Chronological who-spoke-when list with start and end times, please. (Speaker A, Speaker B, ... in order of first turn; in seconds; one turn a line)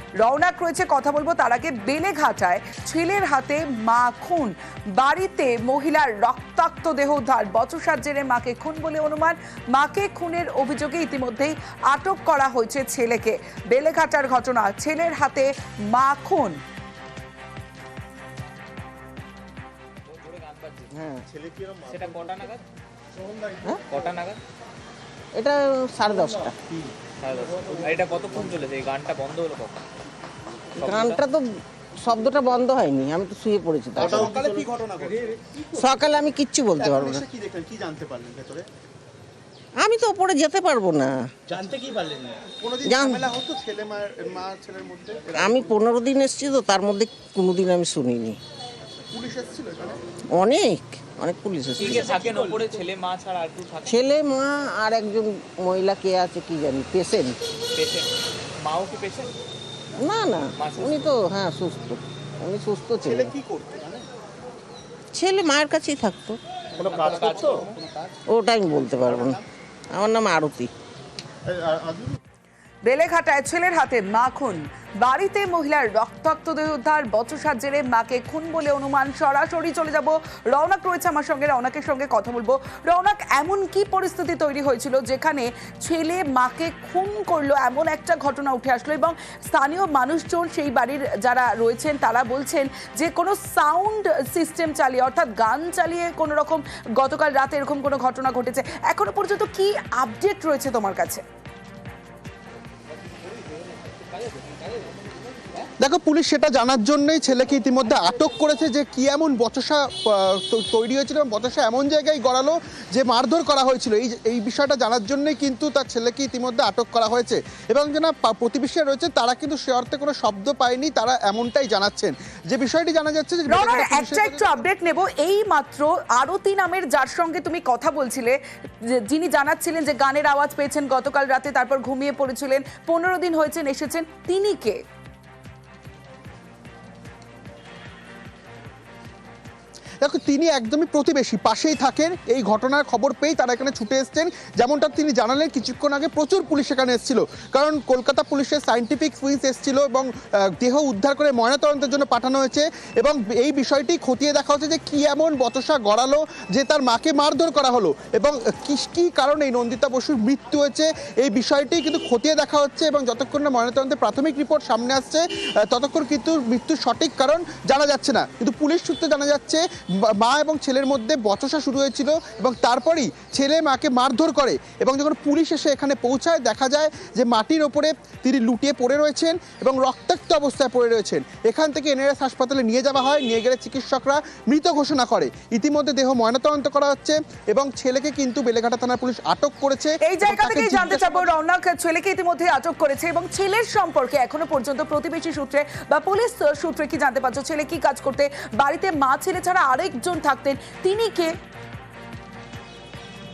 Speaker A: 0.2-16.6
Speaker B: 20.1-21.0
Speaker C: 21.0-21.2
Speaker B: 21.6-22.6
Speaker B: 23.8-24.4
Speaker C: 25.4-26.6
Speaker B: 27.2-29.8
Speaker C: 30.8-31.5
Speaker B: 30.8-31.2
Speaker C: 32.0-34.4
Speaker D: 34.0-35.9
Speaker C: 35.8-37.2
Speaker D: 36.8-38.7
Speaker C: 39.8-41.2
Speaker D: 41.5-45.7
Speaker C: 42.9-43.3
Speaker C: 45.3-48.4
Speaker D: 49.1-50.0
Speaker C: 50.3-51.9
Speaker B: 51.8-54.1
Speaker D: 51.9-52.6
Speaker C: 53.9-57.4
Speaker B: 57.8-59.4
Speaker C: 60.0-63.3
Speaker B: 60.6-61.1
Speaker D: 63.1-64.0
Speaker C: 65.1-66.4
Speaker B: 66.8-67.8
Speaker D: 66.8-67.7
Speaker C: 68.3-69.4
Speaker C: 69.9-70.7
Speaker A: 72.8-101.2
Speaker D: 105.8-124.7
Speaker A: 123.5-128.4
Speaker A: 129.0-134.8
Speaker D: 140.0-191.3
Speaker A: 190.0-201.3